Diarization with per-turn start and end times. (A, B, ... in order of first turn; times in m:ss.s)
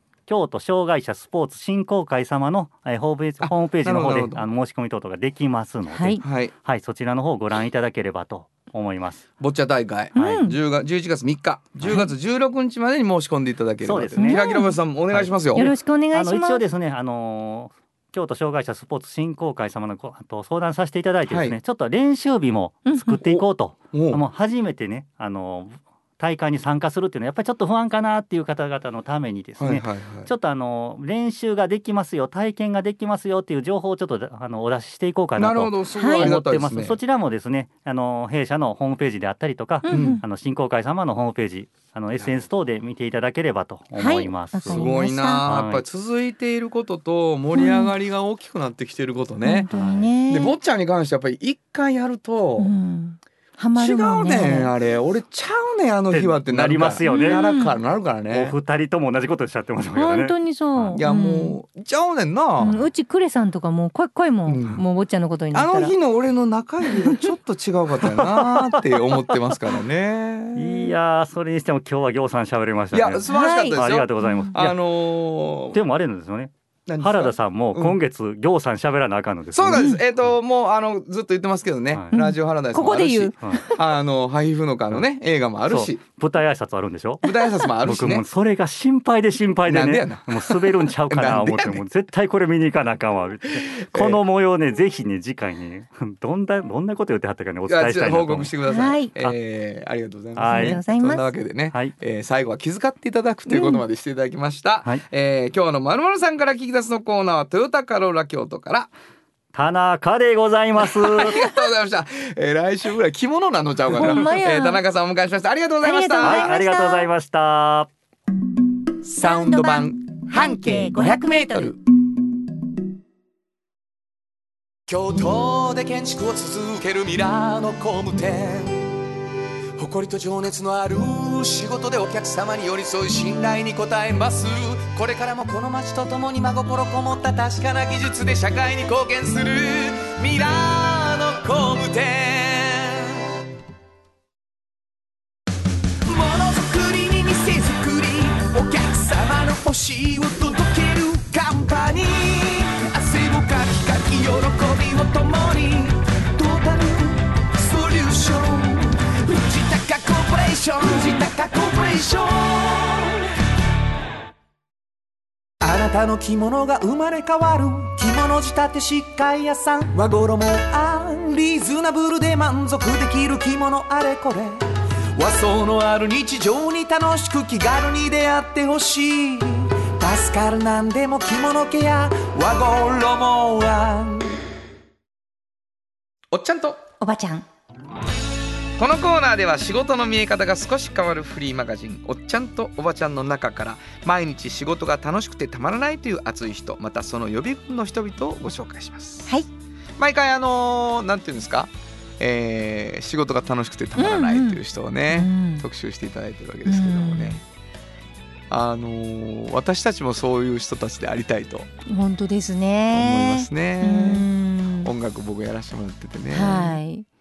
0:00.3-0:09.2 A
0:03.4-0:04.4 B
0:05.9-0:06.2 C
0:06.2-0:06.5 B
0:09.4-0:15.7 B
0:10.1-0:10.6 C
0:10.2-0:10.4 A
0:13.8-0:14.4 A
0:14.2-0:14.7 C
0:15.1-0:44.9 A
0:15.6-0:16.6 C
0:21.3-0:21.6 B
0:22.8-0:23.2 C
0:23.2-0:24.2 B
0:29.6-0:30.3 B
0:35.4-0:37.0 B
0:36.0-0:36.3 C
0:39.8-0:40.2 C
0:39.9-0:40.2 B
0:44.0-0:45.5 C
0:44.7-0:49.7 B
0:45.4-0:45.8 A
0:47.5-0:47.9 C
0:49.4-0:50.6 C
0:49.7-0:50.1 A
0:50.2-0:52.7 B
0:52.6-0:54.7 C
0:53.8-0:58.6 B
0:56.1-0:57.4 A
0:57.0-0:57.8 C
0:58.3-1:01.0 A
0:59.9-1:01.6 C
1:01.0-1:02.8 B
1:02.6-1:05.9 C
1:04.5-1:04.8 B
1:05.5-1:10.9 B
1:10.6-1:14.8 A
1:12.9-1:15.8 B
1:13.3-1:14.5 C
1:15.7-1:20.0 A
1:16.9-1:18.0 B
1:19.5-1:26.0 B
1:19.7-1:20.0 C
1:22.1-1:23.8 C
1:25.6-1:38.5 A
1:27.2-1:28.2 B
1:29.6-1:31.8 B
1:33.5-1:34.2 B
1:37.7-1:48.9 B
1:38.6-1:39.1 C
1:40.4-1:40.8 A
1:40.5-1:41.3 C
1:43.5-1:43.8 C
1:49.5-1:51.5 A
1:50.8-1:56.5 B
1:53.9-1:54.8 C
1:55.8-1:57.1 C
1:56.2-1:57.9 A
1:59.0-2:01.8 D
1:59.2-1:59.9 B
1:59.2-1:59.8 C
2:00.7-2:01.1 C
2:04.9-2:08.8 D
2:09.8-2:19.2 D
2:17.9-2:23.1 B
2:19.9-2:21.6 D
2:26.0-2:43.2 D
2:45.6-2:54.6 D
2:55.1-3:04.4 D
3:06.3-3:06.8 B
3:07.0-3:07.5 C
3:08.8-3:19.3 B
3:20.0-3:27.4 B
3:24.0-3:25.7 C
3:26.6-3:27.4 C
3:28.5-3:31.7 B
3:31.8-3:34.9 C
3:32.9-3:34.3 B
3:34.8-3:36.8 B
3:36.3-3:37.0 C